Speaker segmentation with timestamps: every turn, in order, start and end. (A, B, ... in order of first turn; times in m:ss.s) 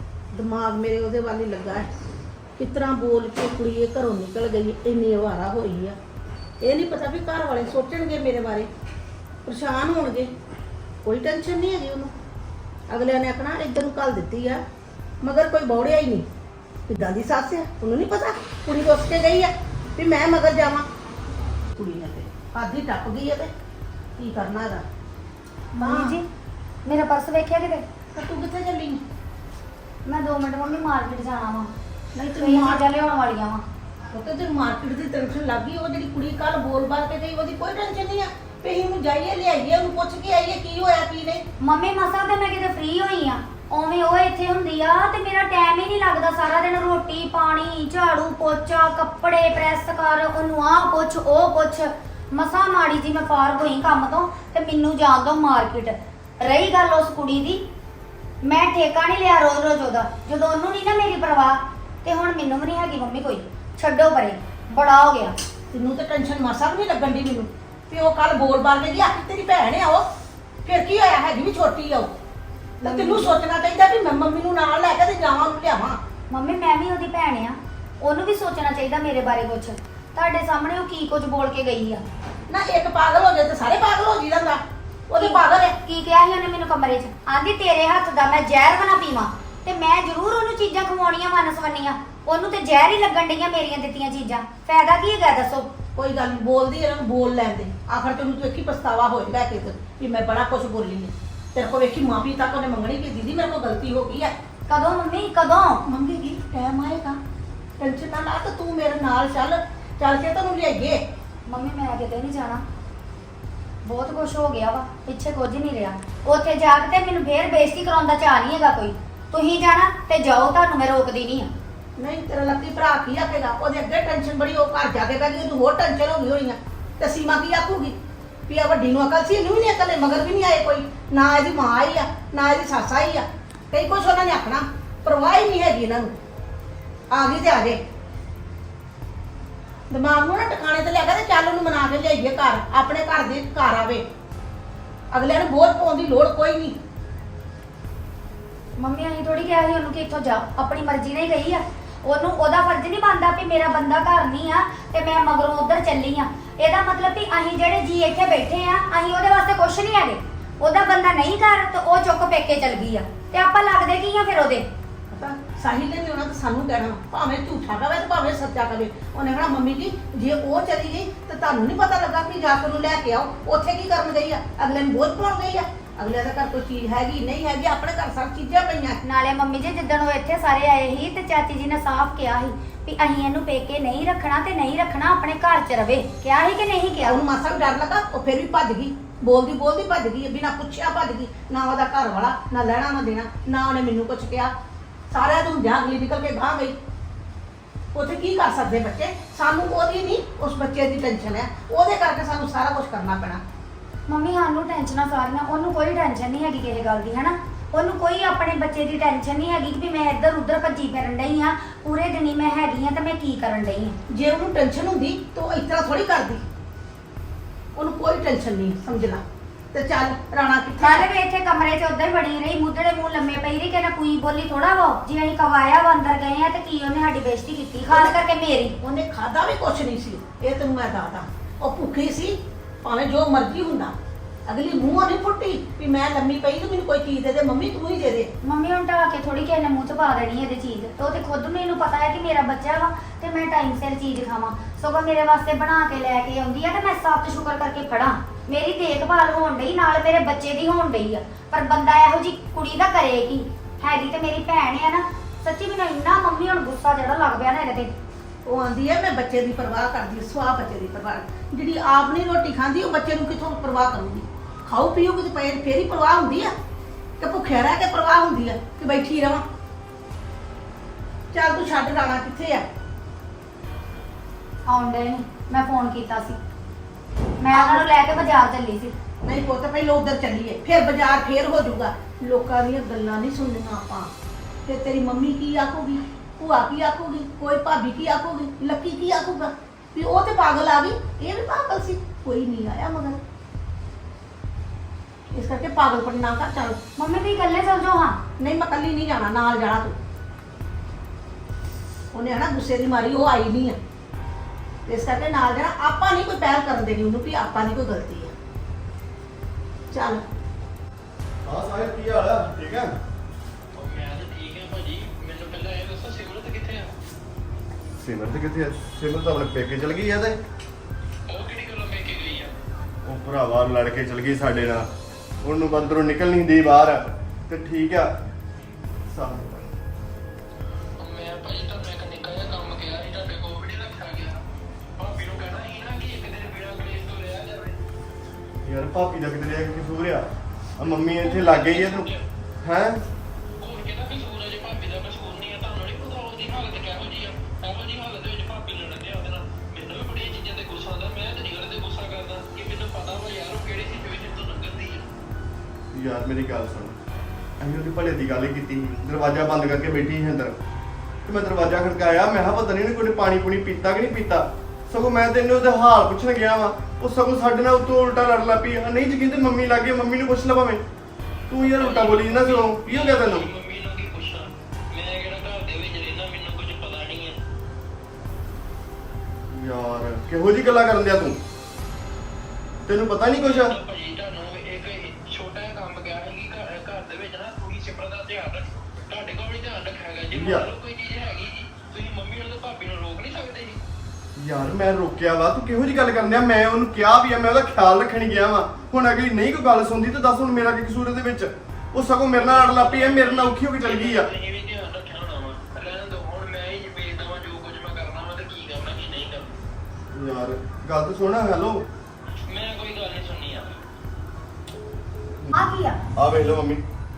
0:00.3-0:01.9 A
0:02.6-0:06.0 A
0:06.6-0:08.7 A
0:09.4-0:10.3 A
0:11.0-0:12.1 A
0:12.9-0:14.6 A
0:15.2-0:16.3 A
0:16.9-0:20.9 A
0:21.8-0:23.5 A
0:24.2-0:24.8 A
0:25.8-0:26.3 B
0:25.8-0:26.2 A
0:26.8-0:27.8 B
0:28.1-0:29.0 A
0:30.1-0:31.7 B
0:32.2-0:32.8 A
0:32.3-0:33.6 B
0:34.1-0:41.4 A
0:41.6-0:57.6 B
0:58.4-1:05.4 B
1:05.7-1:10.1 A
1:10.6-1:12.1 A
1:12.8-1:16.0 A
1:12.8-1:13.3 B
1:16.3-1:22.0 B
1:22.5-1:25.8 A
1:25.2-1:35.7 B
1:36.0-1:44.3 A
1:44.7-1:45.9 B
1:45.8-1:47.2 A
1:47.8-1:51.0 A
1:51.5-1:52.6 B
1:53.8-2:01.5 B
2:02.0-2:08.0 A
2:08.5-2:16.1 A
2:17.1-2:17.8 A
2:19.9-2:24.0 A
2:25.1-2:26.8 A
2:28.8-2:44.7 B
2:45.1-2:59.0 A
2:59.0-3:07.2 B
3:07.0-3:14.5 A
3:15.1-3:16.8 A
3:17.9-3:23.4 A
3:24.1-3:34.0 B
3:34.1-3:36.4 A
3:37.8-3:41.1 A
3:40.8-3:48.8 B
3:47.9-3:48.2 A
3:48.8-3:53.9 A
3:54.5-3:58.3 A
3:58.4-4:17.9 B
4:18.4-4:26.5 A
4:27.2-4:29.4 A
4:31.3-4:32.7 A
4:34.7-4:36.4 B
4:37.4-4:39.0 B
4:37.5-4:37.8 A
4:39.2-4:44.1 A
4:44.7-4:53.2 A
4:55.3-4:56.8 A
4:57.0-4:58.2 B
4:58.4-5:00.0 A
5:02.1-5:03.8 A
5:04.9-5:08.3 A
5:09.9-5:10.2 A
5:11.4-5:13.0 C
5:13.8-5:16.9 D
5:18.0-5:20.4 C
5:21.3-5:22.5 D
5:23.0-5:24.9 C
5:25.4-5:28.1 C
5:29.1-5:29.6 C
5:31.0-5:34.4 D
5:35.0-5:37.8 D
5:38.6-5:42.1 C
5:41.2-5:42.2 D
5:42.6-5:43.0 C
5:43.6-5:55.1 D
5:55.9-5:56.9 C
5:57.6-6:00.6 C
6:01.3-6:10.8 C
6:11.5-6:13.5 C
6:11.6-6:17.4 D
6:19.5-6:21.4 C
6:22.9-6:23.8 C
6:23.4-6:33.8 D
6:30.3-6:30.7 C
6:34.4-6:44.3 C
6:42.3-6:49.5 D
6:50.1-6:51.8 C
6:52.3-6:53.8 D
6:55.5-6:56.0 B
6:56.2-6:56.8 C